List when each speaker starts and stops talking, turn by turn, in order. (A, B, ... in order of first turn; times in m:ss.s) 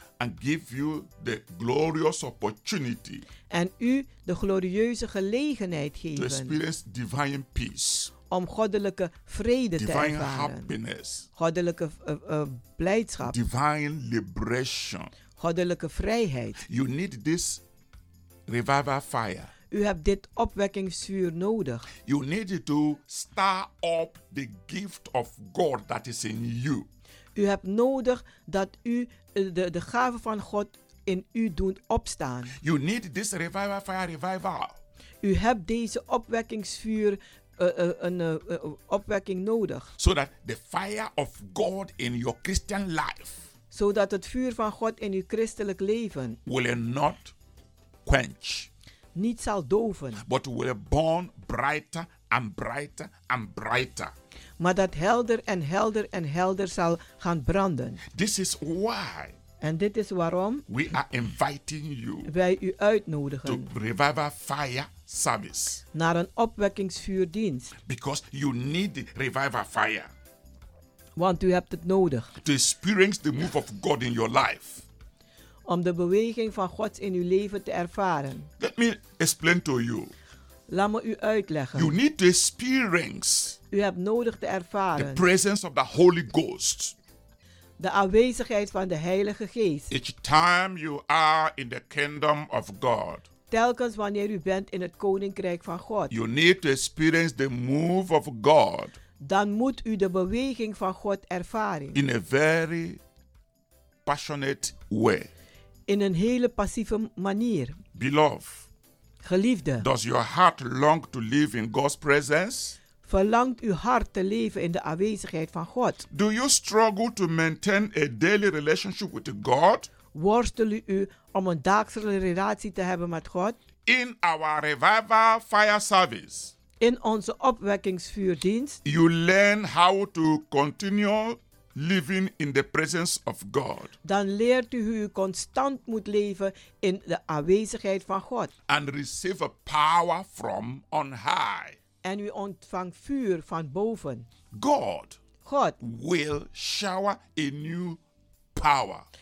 0:00.2-0:03.2 A
0:03.5-0:06.6 B
0:06.2-0:08.1 A
0:08.3-0:10.7 B
0:09.8-0:11.3 A
0:11.4-0:13.4 B
0:13.2-0:15.1 A
0:15.4-0:16.6 B
0:16.6-0:17.6 A
0:18.5-0:19.5 A
0:19.7-0:21.9 B
0:22.0-0:26.9 A
0:27.4-0:32.5 B
0:32.6-0:34.8 A
0:35.2-0:39.9 B
0:40.0-0:43.4 A
0:43.7-0:46.4 B
0:46.5-0:47.3 A
0:48.1-0:48.7 A
0:49.2-0:50.2 B
0:50.2-0:54.1 A
0:54.6-0:58.0 B
0:58.1-0:59.4 A
0:59.6-1:00.6 B
1:00.7-1:02.3 A
1:02.3-1:03.7 B
1:03.4-1:05.8 A
1:05.9-1:07.7 B
1:07.9-1:10.1 A
1:11.2-1:12.3 B
1:12.4-1:14.8 A
1:15.7-1:18.5 B
1:18.6-1:20.1 A
1:20.7-1:22.0 B
1:21.8-1:23.6 A
1:23.7-1:25.3 B
1:25.0-1:27.0 A
1:27.8-1:29.9 B
1:29.9-1:33.3 A
1:33.5-1:36.1 B
1:36.1-1:39.0 A
1:39.2-1:42.0 B
1:41.9-1:43.0 A
1:44.0-1:45.3 A
1:45.9-1:47.8 B
1:48.0-1:48.7 A
1:49.2-1:49.9 B
1:49.8-1:52.8 A
1:53.0-1:56.0 B
1:56.1-1:59.9 A
2:00.1-2:03.6 B
2:03.9-2:06.5 A
2:06.8-2:08.8 B
2:08.8-2:14.0 A
2:14.0-2:18.5 B
2:18.7-2:21.8 A
2:22.0-2:24.3 B
2:24.5-2:25.2 A
2:25.4-2:25.8 B
2:25.8-2:28.0 A
2:28.6-2:29.1 A